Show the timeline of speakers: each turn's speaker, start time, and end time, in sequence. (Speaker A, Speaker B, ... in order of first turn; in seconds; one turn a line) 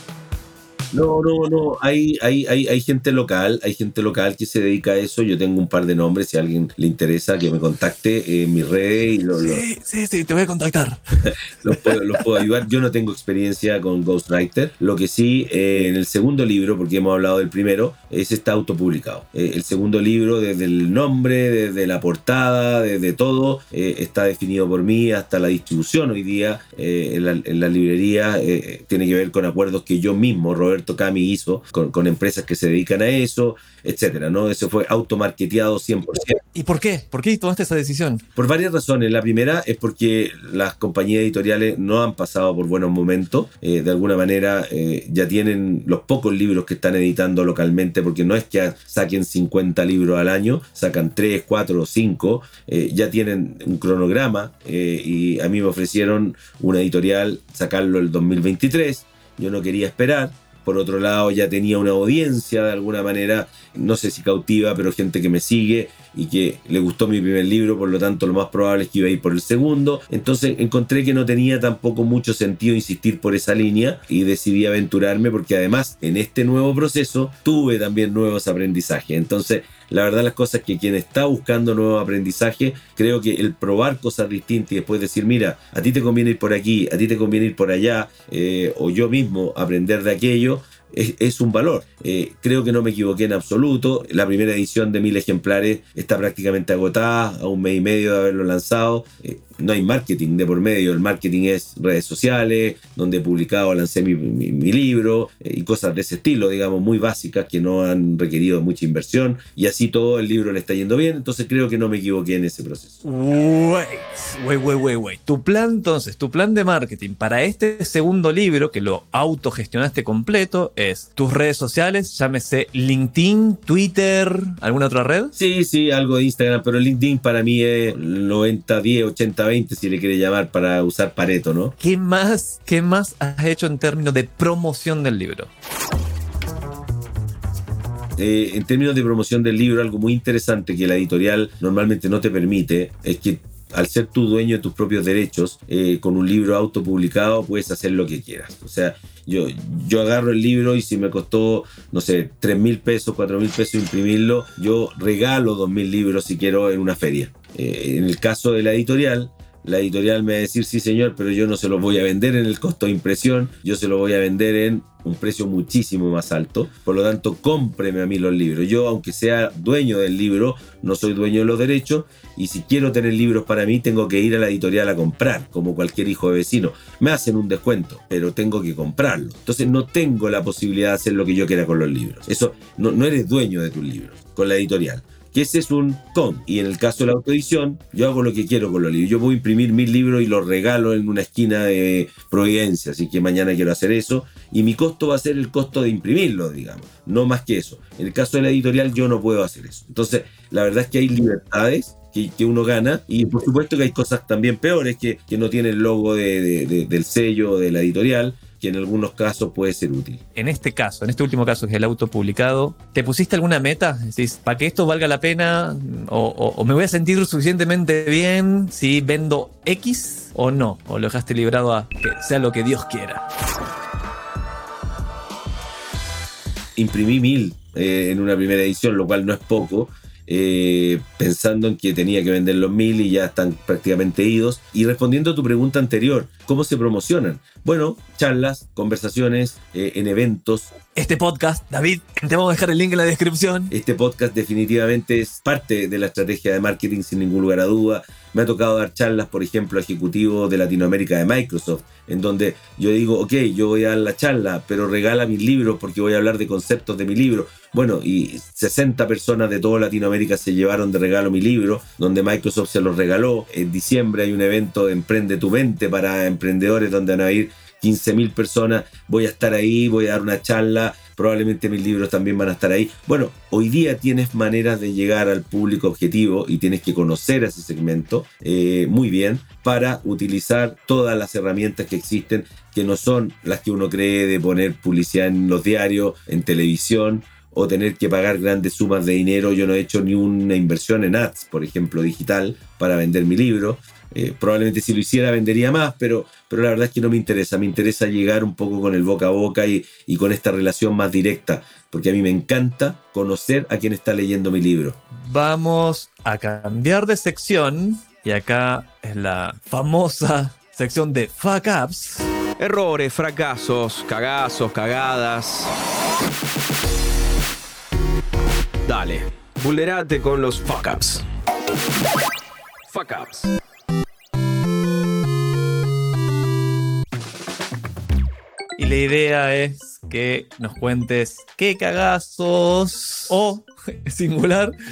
Speaker A: 0.9-9.6
Speaker B: 9.4-12.0
Speaker A: 11.3-36.4
Speaker B: 36.5-38.2
Speaker A: 38.4-113.0
Speaker B: 113.0-125.3
Speaker A: 125.3-131.7
Speaker B: 131.8-135.5
Speaker A: 138.2-210.2
Speaker B: 210.4-223.3
Speaker A: 226.8-240.7
Speaker B: 240.9-243.7
Speaker A: 243.7-305.0
Speaker B: 305.1-312.3
Speaker C: 312.6-315.7
Speaker C: 318.9-321.2
Speaker C: 322.9-323.5
Speaker B: 328.8-334.7